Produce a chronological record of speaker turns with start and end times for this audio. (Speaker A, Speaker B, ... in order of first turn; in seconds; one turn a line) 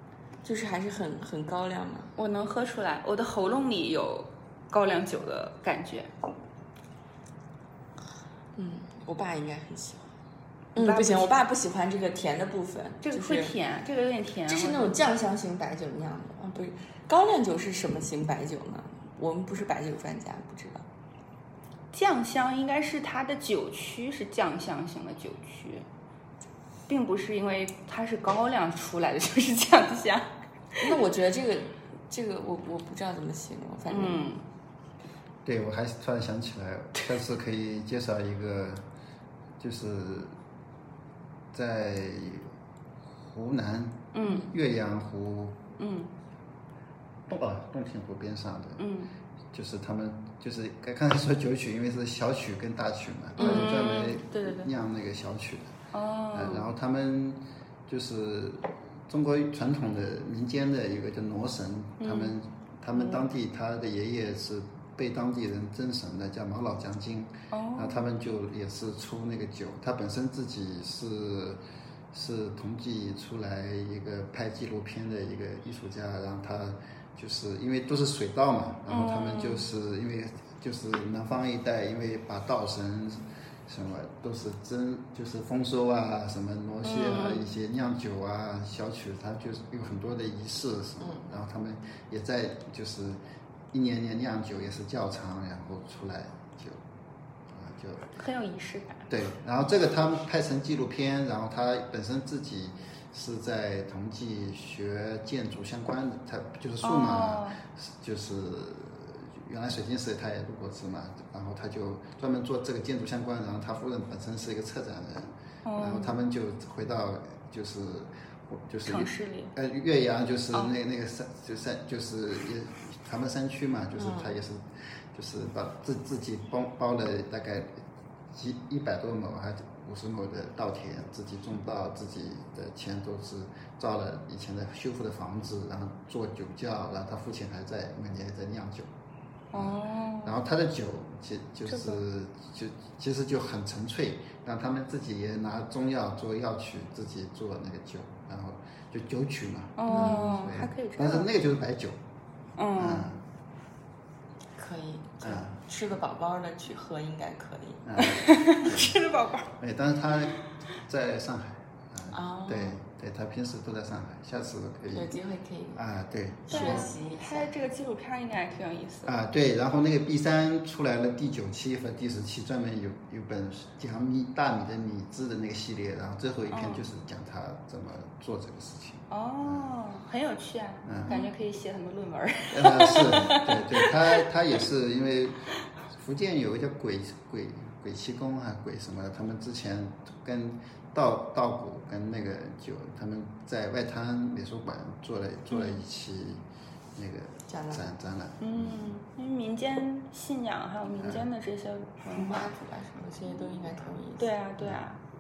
Speaker A: 0.4-2.1
Speaker B: 2.2-6.1
Speaker A: 8.6-10.1
Speaker A: 10.8-13.5
Speaker B: 10.8-11.3
Speaker B: 13.0-15.0
Speaker A: 14.5-20.8
Speaker B: 21.9-25.9
Speaker B: 26.9-30.3
Speaker A: 30.8-34.3
Speaker B: 33.9-34.4
Speaker C: 35.5-38.8
Speaker C: 39.6-40.4
Speaker C: 41.5-42.5
Speaker C: 43.2-45.6
Speaker B: 44.1-44.5
Speaker B: 45.8-46.1
Speaker C: 47.3-48.9
Speaker B: 48.8-49.1
Speaker C: 49.5-55.7
Speaker A: 53.4-53.8
Speaker B: 53.4-54.7
Speaker B: 55.9-56.7
Speaker C: 56.3-71.6
Speaker B: 62.0-62.4
Speaker B: 67.5-68.0
Speaker C: 72.1-93.2
Speaker B: 78.9-79.7
Speaker B: 86.9-87.5
Speaker C: 93.7-96.8
Speaker C: 97.5-98.1
Speaker B: 98.2-99.0
Speaker C: 99.1-127.8
Speaker B: 106.8-107.6
Speaker B: 115.7-116.2
Speaker B: 118.9-119.5
Speaker A: 124.0-124.3
Speaker C: 128.3-138.9
Speaker B: 139.5-140.4
Speaker C: 139.5-152.0
Speaker B: 141.7-142.0
Speaker B: 149.8-151.3
Speaker A: 149.9-150.6
Speaker B: 152.6-153.1
Speaker C: 152.8-153.2
Speaker A: 154.6-157.8
Speaker C: 155.2-155.6
Speaker C: 157.8-158.9
Speaker B: 158.0-159.5
Speaker C: 159.6-165.2
Speaker A: 162.1-162.8
Speaker A: 164.9-165.8
Speaker C: 165.8-166.9
Speaker A: 166.5-167.5
Speaker B: 166.5-169.1
Speaker C: 169.1-179.7
Speaker B: 176.5-176.8
Speaker B: 179.1-183.9
Speaker C: 180.8-181.3
Speaker C: 182.5-185.4
Speaker C: 185.9-196.4
Speaker C: 197.0-198.9
Speaker A: 197.5-197.9
Speaker B: 198.4-202.5
Speaker A: 202.1-204.3
Speaker B: 204.2-205.0